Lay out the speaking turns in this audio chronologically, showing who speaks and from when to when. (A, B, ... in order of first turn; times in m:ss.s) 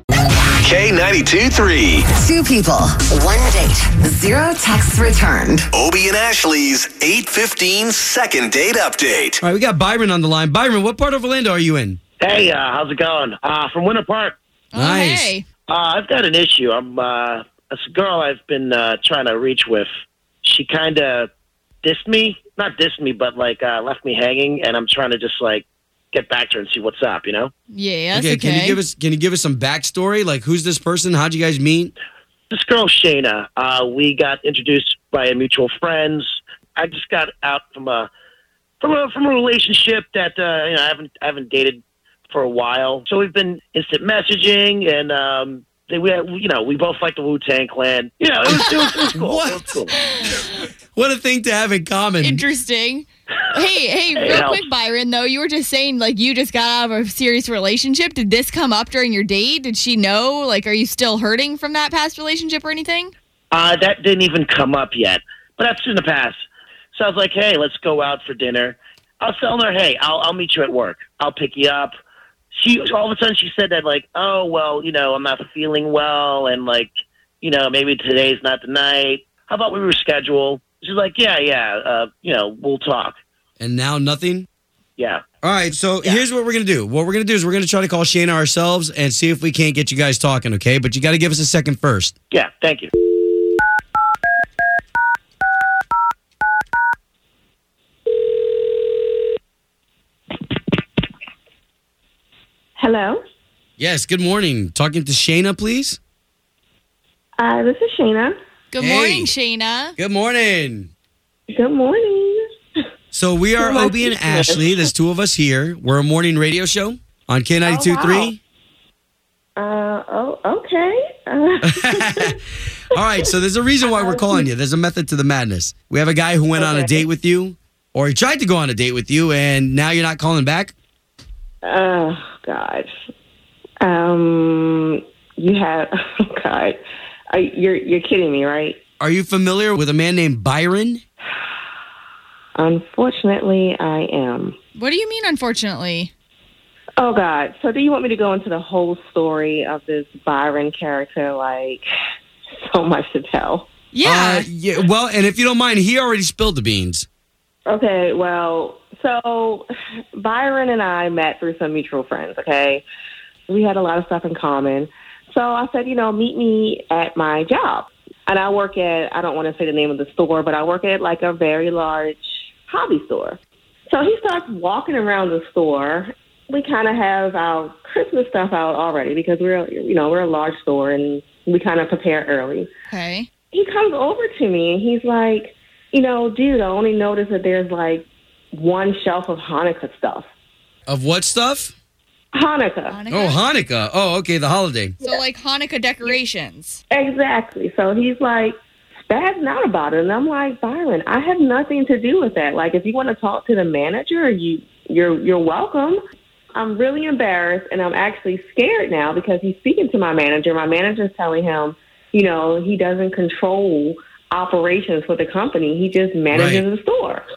0:00.6-0:02.1 A
0:02.1-0:05.7 B
0:05.7-0:09.4 A
0:09.4-0:12.0 C
0:12.2-0:14.3 D
0:14.7-0:15.4 E
0:14.7-0:15.3 C
0:15.7-0:19.9 D
0:20.4-0:21.3 D
0:21.8-0:27.5 D
0:27.7-0:28.8 E
0:28.1-0:31.9 C
0:32.5-0:38.1 D
0:38.8-0:50.0 D
0:48.4-0:49.8 C
0:48.6-0:49.1 E
0:50.0-0:50.4 E
0:50.9-0:52.4 C
0:52.2-1:03.1 E
0:54.1-0:54.6 D
1:03.5-1:06.4 D
1:06.9-1:11.9 D
1:12.5-1:16.9 D
1:17.4-1:23.2 D
1:23.6-1:24.5 C
1:25.0-1:25.2 D
1:25.4-1:32.1 C
1:32.3-1:32.9 D
1:42.8-1:43.2 F
1:43.8-1:46.0 C
1:47.4-1:48.4 F
1:48.7-1:49.9 E
1:48.8-1:49.3 C
1:50.0-1:50.9 C
1:51.5-1:52.4 F
1:53.1-1:58.4 C
1:53.6-1:54.9 F
1:57.6-1:58.3 F
1:59.6-2:02.3 F
2:01.6-2:02.4 C
2:02.9-2:10.7 C
2:03.8-2:04.4 F
2:06.5-2:07.1 F
2:11.6-2:12.9 F
2:13.8-2:16.8 F
2:17.3-2:18.8 F
2:19.0-2:21.0 C
2:22.6-2:24.6 F
2:24.7-2:26.1 E
2:27.0-2:31.8 F
2:32.6-2:33.7 F
2:33.9-2:34.5 E
2:34.0-2:37.1 C
2:37.6-2:42.8 F
2:43.5-2:53.4 F
2:53.9-3:02.7 F
3:02.9-3:03.3 E
3:03.5-3:10.3 F
3:10.9-3:11.7 C
3:12.3-3:13.0 F
3:12.9-3:13.4 E
3:13.1-3:15.0 C
3:15.0-3:16.8 E
3:16.9-3:26.0 F
3:26.5-3:37.2 F
3:36.3-3:36.6 C